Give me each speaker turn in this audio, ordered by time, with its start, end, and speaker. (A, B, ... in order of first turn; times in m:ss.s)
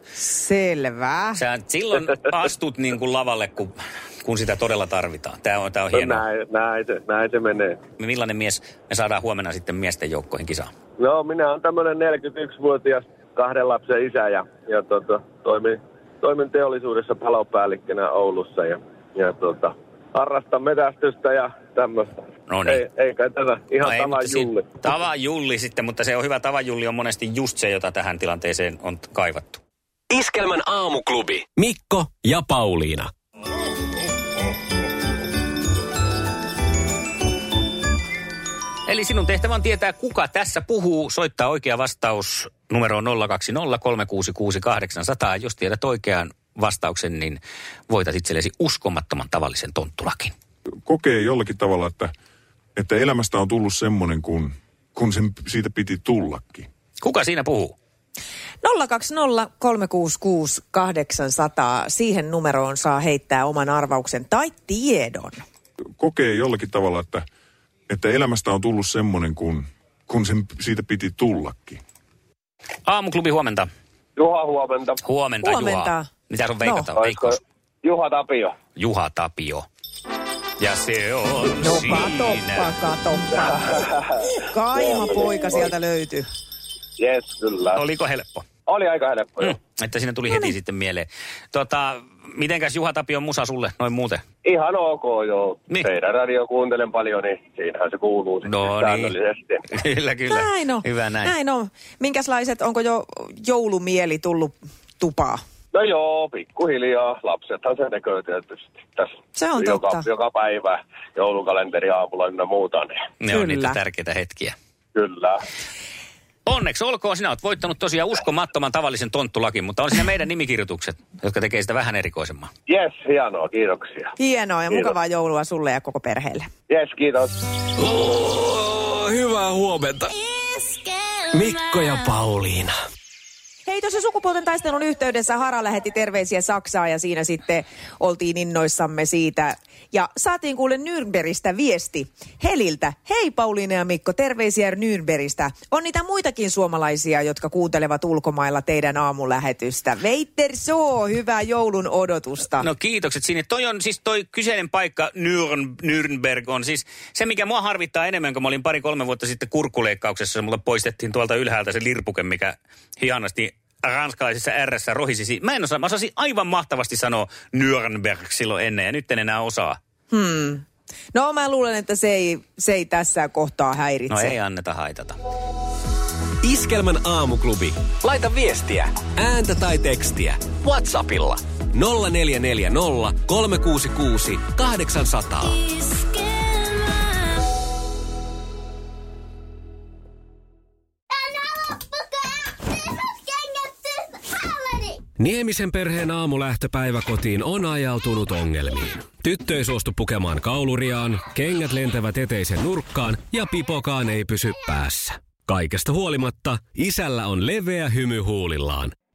0:00.2-0:01.4 A
0:01.4-0:06.3 B
0:05.9-0:07.8 C
0:08.0-0:10.7 B
0:11.0-0:22.1 C
0:22.5-0:22.9 B
0:22.7-0:24.7 C
0:23.8-0:29.6 B
0:31.6-0:33.1 D
0:38.8-0:50.3 B
0:50.8-0:52.1 E
0:52.7-0:56.7 E
0:57.0-0:57.8 B
0:58.6-1:05.4 A
1:06.0-1:07.2 E
1:07.9-1:11.8 E
1:12.8-1:13.7 B
1:14.2-1:15.0 C
1:15.0-1:17.4 B
1:15.4-1:16.1 A
1:16.6-1:16.9 A
1:16.9-1:18.6 C
1:18.8-1:19.6 B
1:20.6-1:22.7 B
1:21.6-1:26.2 A
1:24.8-1:25.6 C
1:27.0-1:27.8 C
1:27.7-1:28.4 B
1:28.7-1:29.5 C
1:29.4-1:34.2 B
1:30.2-1:30.5 A
1:34.4-1:39.6 C
1:38.4-1:39.2 B
1:39.7-1:41.3 B
1:40.3-1:45.4 A
1:45.7-1:53.0 C
1:49.4-1:50.1 A
1:53.2-1:54.5 B
1:53.3-1:53.8 A
1:54.9-1:55.4 C
1:56.4-2:02.5 B
2:02.7-2:04.1 C
2:04.2-2:06.5 A
2:06.7-2:07.3 C
2:07.9-2:08.4 D
2:09.8-2:10.1 D
2:11.3-2:12.6 D
2:13.7-2:32.7 A
2:32.6-2:49.8 B
2:50.1-2:54.4 A
2:54.1-2:55.2 B
2:56.4-3:05.6 D
3:15.2-3:28.9 D